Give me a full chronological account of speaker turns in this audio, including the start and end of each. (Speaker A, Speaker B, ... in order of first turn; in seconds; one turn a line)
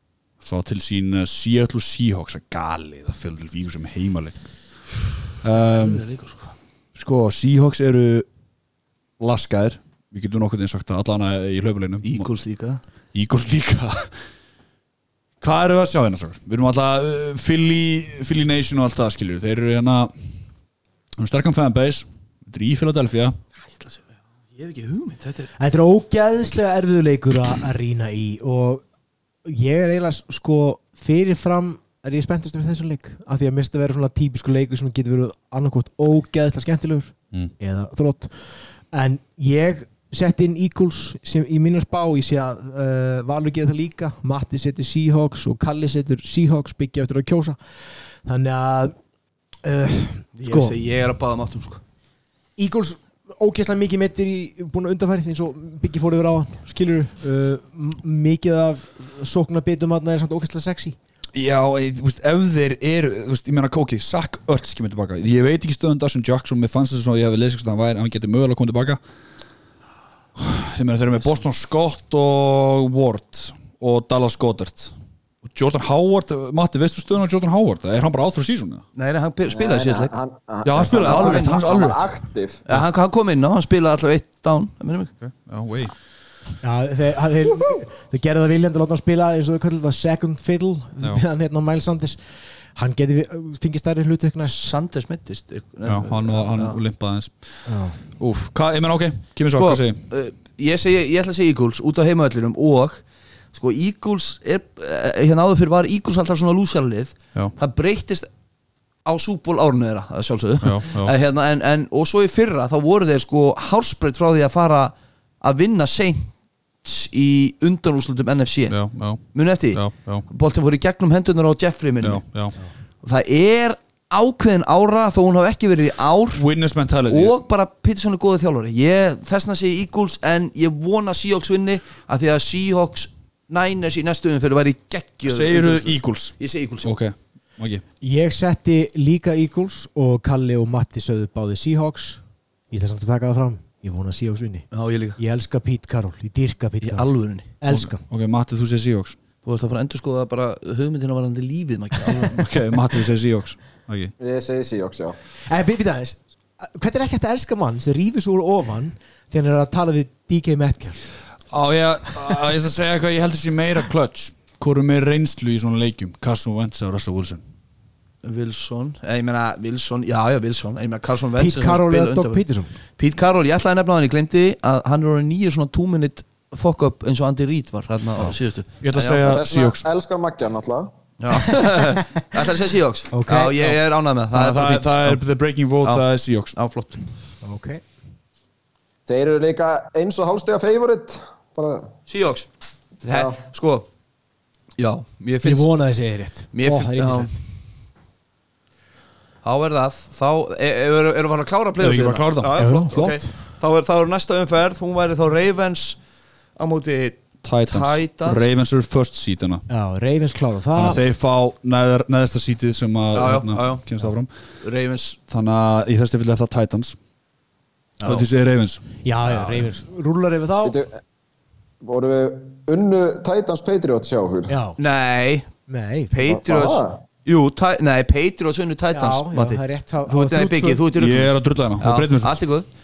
Speaker A: 0.4-4.5
Speaker A: 5.4-6.0
Speaker B: 5.6-6.5
Speaker A: 7.0-8.3
Speaker A: 9.2-12.3
Speaker B: 12.0-12.8
Speaker A: 13.1-14.2
Speaker A: 15.4-20.1
Speaker A: 21.2-23.4
Speaker B: 23.7-24.0
Speaker B: 24.6-25.5
Speaker C: 25.6-28.8
Speaker C: 29.4-47.6
Speaker C: 48.2-48.9
Speaker C: 49.6-50.8
Speaker B: 50.4-51.8
Speaker C: 52.6-61.0
Speaker A: 61.3-69.0
Speaker A: 70.3-78.8
Speaker B: 78.9-80.2
Speaker D: 79.5-82.6
Speaker A: 80.6-82.1
Speaker B: 80.7-81.6
Speaker B: 82.7-85.1
Speaker A: 85.2-85.9
Speaker C: 86.6-92.2
Speaker C: 92.7-94.6
Speaker B: 94.5-96.8
Speaker A: 95.8-100.0
Speaker C: 97.7-98.0
Speaker B: 99.6-108.3
Speaker B: 109.0-116.3
Speaker A: 110.6-111.1
Speaker B: 116.8-122.5
Speaker A: 118.7-120.2
Speaker A: 122.0-122.5
Speaker B: 123.0-126.4
Speaker A: 126.3-127.4
Speaker B: 127.1-137.0
Speaker A: 135.2-137.8
Speaker C: 138.0-148.0
Speaker B: 144.7-145.2
Speaker B: 146.8-147.5
Speaker A: 147.7-149.2
Speaker B: 149.4-152.6
Speaker A: 152.2-154.1
Speaker D: 154.2-155.2
Speaker C: 155.5-161.0
Speaker A: 161.5-167.4
Speaker B: 168.2-179.2
Speaker C: 171.4-172.7
Speaker A: 178.2-179.8
Speaker D: 179.2-180.9
Speaker B: 181.2-185.2
Speaker C: 181.6-182.0
Speaker C: 183.1-183.8
Speaker A: 184.3-186.6
Speaker B: 185.8-187.1
Speaker C: 187.4-187.8
Speaker D: 189.1-191.9
Speaker B: 192.1-192.5
Speaker B: 193.0-193.9
Speaker D: 193.1-193.4
Speaker B: 194.8-195.7
Speaker C: 195.4-197.4
Speaker B: 196.5-197.4
Speaker B: 199.4-206.0
Speaker A: 201.8-202.6
Speaker C: 202.6-203.3
Speaker B: 206.6-208.4
Speaker A: 207.4-209.6
Speaker C: 209.7-211.0
Speaker A: 210.7-214.3
Speaker B: 213.1-213.9
Speaker B: 214.6-215.2
Speaker A: 215.3-217.0
Speaker C: 218.0-218.2
Speaker A: 218.0-218.8
Speaker C: 219.0-220.8
Speaker B: 219.2-219.6
Speaker D: 220.6-221.0
Speaker D: 221.8-224.5
Speaker C: 224.5-224.8
Speaker B: 224.8-225.5
Speaker C: 225.7-226.2
Speaker B: 226.1-232.7
Speaker D: 226.2-227.0
Speaker C: 228.9-230.8
Speaker A: 230.9-232.4